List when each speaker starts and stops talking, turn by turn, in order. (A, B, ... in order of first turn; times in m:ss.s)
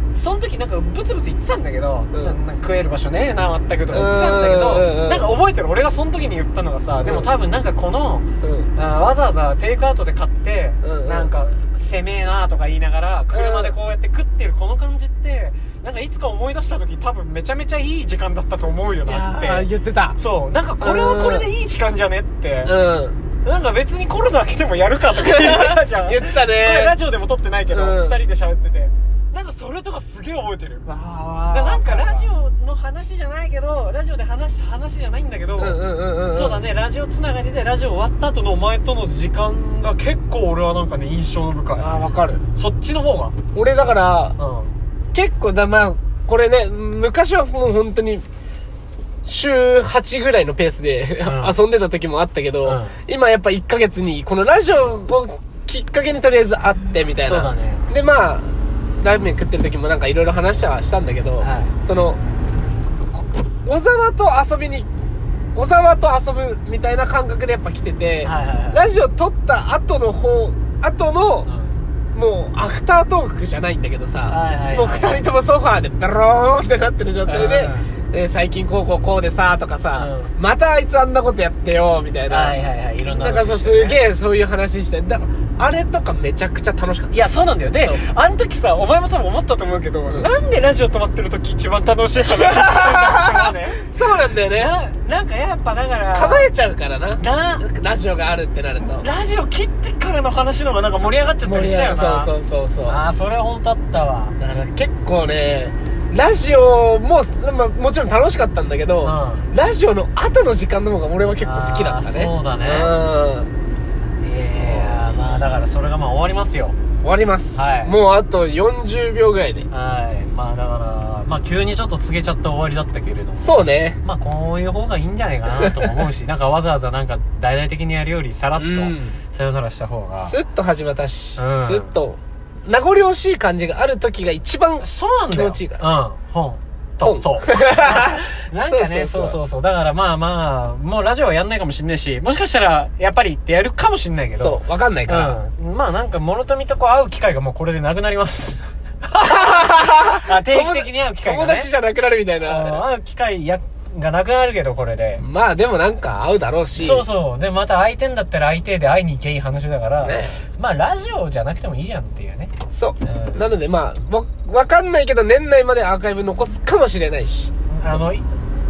0:00.1-0:22.7 A
0:03.9-0:05.3 B
0:07.0-0:07.3 B
0:08.4-0:08.7 B
0:10.8-0:11.3 B
0:13.3-0:13.8 B
0:19.0-0:20.2 B
0:20.8-0:21.5 B
0:22.6-0:23.2 B
0:23.4-0:30.9 A
0:25.2-0:27.0 B
0:27.7-0:28.2 B
0:30.9-0:32.3 B
0:31.5-0:41.9 A
0:35.6-0:36.6 B
0:41.8-0:42.4 B
0:42.5-0:43.3 A
0:43.5-0:44.4 B
0:44.4-0:44.7 A
0:45.1-0:48.2 B
0:49.2-1:02.2 B
0:51.2-0:51.6 A
0:52.6-0:53.0 A
0:57.2-0:57.9 A
1:01.4-1:01.7 A
1:03.1-1:04.9 B
1:05.5-1:11.5 B
1:08.2-1:08.8 A
1:11.4-1:11.8 A
1:12.1-1:27.2 B
1:14.3-1:15.2 A
1:17.2-1:17.9 A
1:20.0-1:20.3 A
1:22.3-1:24.0 A
1:27.1-1:34.0 A
1:32.4-1:34.7 B
1:34.5-1:36.5 A
1:36.1-1:39.1 B
1:37.2-1:37.6 A
1:38.8-1:42.3 A
1:41.4-1:43.0 B
1:42.9-1:44.4 A
1:44.4-1:53.5 B
1:49.0-1:49.5 A
1:51.4-1:52.9 A
1:54.2-1:56.8 A
1:54.3-1:55.4 B
1:57.0-1:59.7 B
1:57.5-1:58.0 A
1:59.7-2:10.4 A
2:03.4-2:04.0 B
2:05.6-2:05.9 B
2:08.6-2:09.2 B
2:10.2-2:15.8 B
2:11.4-2:12.0 A
2:14.8-2:31.7 A
2:17.0-2:19.4 B
2:24.4-2:25.4 B
2:29.2-2:32.8 B
2:32.4-2:35.2 A
2:35.2-2:37.1 B
2:36.8-2:43.4 A
2:40.0-2:40.4 B
2:42.7-2:47.5 B
2:47.7-2:48.2 A